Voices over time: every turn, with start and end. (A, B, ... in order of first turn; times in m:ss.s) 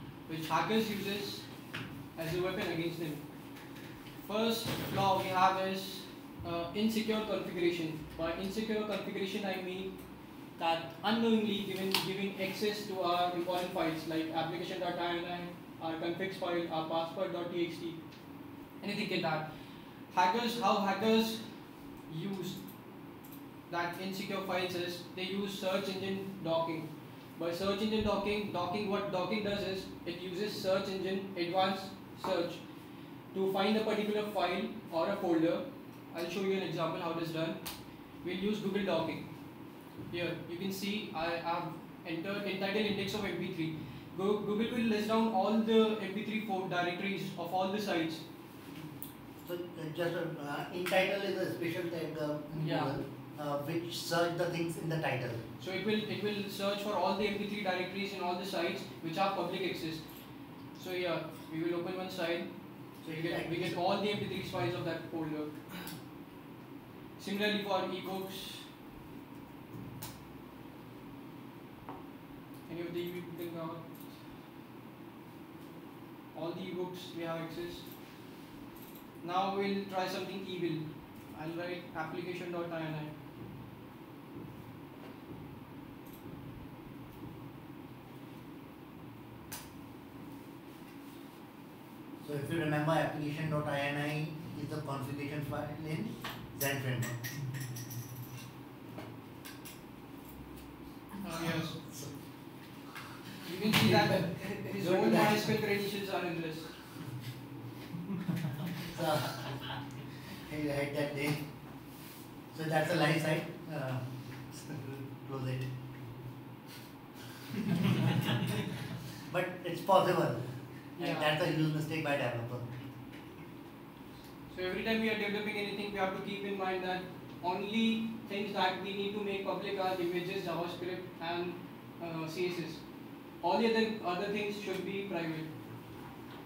0:00.2-0:01.6 A
0:02.1-0:03.5 A
0:04.2-0:10.0 A
0:10.5-0:18.0 A
0:18.8-0:19.5 A
0:20.0-0:22.6 A
0:23.7-0:39.4 A
0:40.0-0:48.2 A
0:49.4-0:55.4 B
0:52.5-0:52.9 A
0:55.6-1:05.8 A
1:03.0-1:03.8 B
1:07.2-1:08.7 A
1:12.6-1:14.2 A
1:16.3-1:17.9 A
1:19.2-1:23.2 A
1:32.2-1:37.1 B
1:41.2-1:41.8 A
1:41.3-1:42.1 B
1:43.4-1:46.8 A
1:43.7-1:45.6 B
1:48.8-1:49.8 B
1:50.3-1:51.5 B
1:52.5-1:55.7 B
1:59.2-2:02.7 B
2:01.0-2:01.3 A
2:04.5-2:15.9 A